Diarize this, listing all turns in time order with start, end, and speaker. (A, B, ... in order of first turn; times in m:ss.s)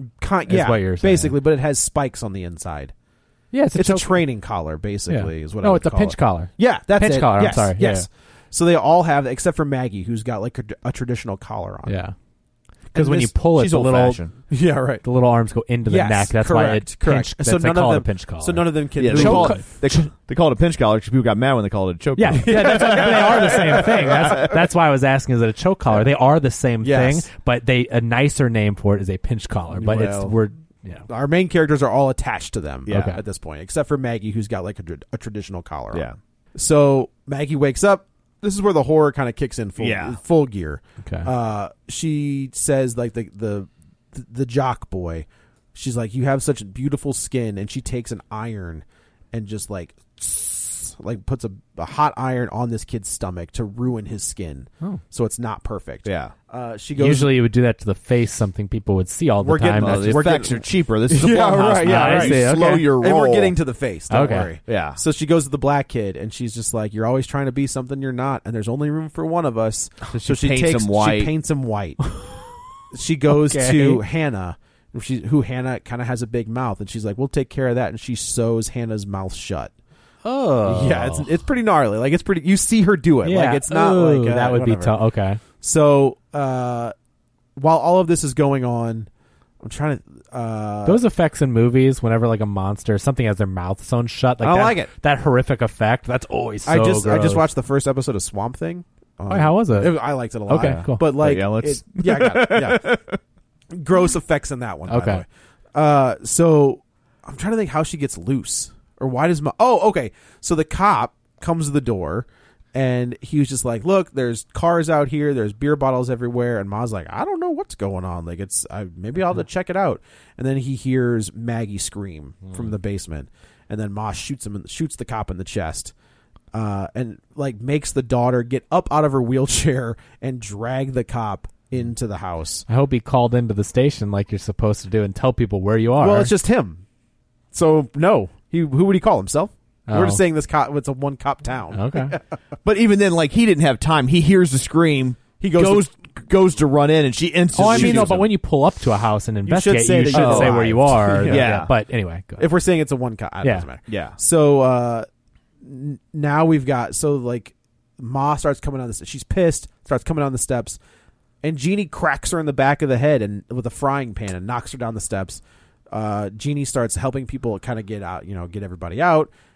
0:00.2-0:02.9 A
0:00.5-0:01.3 B
0:03.5-0:04.2 B
0:03.7-0:12.0 A
0:05.1-0:08.1 B
0:11.9-0:12.1 B
0:12.9-0:13.3 A
0:12.9-0:14.4 B
0:13.5-0:14.3 C
0:14.5-0:15.0 A
0:15.0-0:20.0 B
0:15.9-0:19.8 A
0:19.0-0:24.6 C
0:22.2-0:31.1 B
0:22.3-0:24.5 A
0:26.8-0:27.3 A
0:29.7-0:30.3 A
0:31.1-0:57.3 A
0:32.9-0:33.1 C
0:32.9-0:33.2 B
0:35.9-0:36.2 C
0:39.8-0:40.2 C
0:41.0-0:41.3 B
0:56.0-0:56.3 C
0:57.0-1:00.3 B
0:59.4-1:12.0 A
0:59.5-1:03.6 C
1:01.8-1:02.9 B
1:04.1-1:04.5 B
1:04.7-1:05.0 C
1:10.1-1:11.3 C
1:12.1-1:12.5 B
1:12.9-1:19.7 A
1:13.3-1:14.0 B
1:20.2-1:21.3 B
1:20.6-1:24.9 A
1:23.2-1:25.4 B
1:25.6-1:26.9 A
1:27.6-1:29.1 A
1:29.6-1:31.0 A
1:30.8-1:37.4 B
1:34.4-1:34.9 A
1:36.7-1:42.9 A
1:39.3-1:41.0 B
1:40.5-1:43.2 C
1:43.7-2:05.9 A
1:44.9-1:45.2 B
2:06.5-2:12.6 A
2:12.7-2:16.3 B
2:16.0-2:16.8 A
2:17.5-2:22.2 A
2:19.9-2:20.2 B
2:21.7-2:22.2 B
2:22.6-2:28.3 C
2:25.4-2:25.9 A
2:27.6-2:32.5 B
2:27.6-2:28.2 A
2:29.4-2:31.6 A
2:30.1-2:31.7 C
2:32.4-2:35.1 A
2:33.9-2:34.2 C
2:35.6-2:40.8 A
2:41.4-2:49.3 A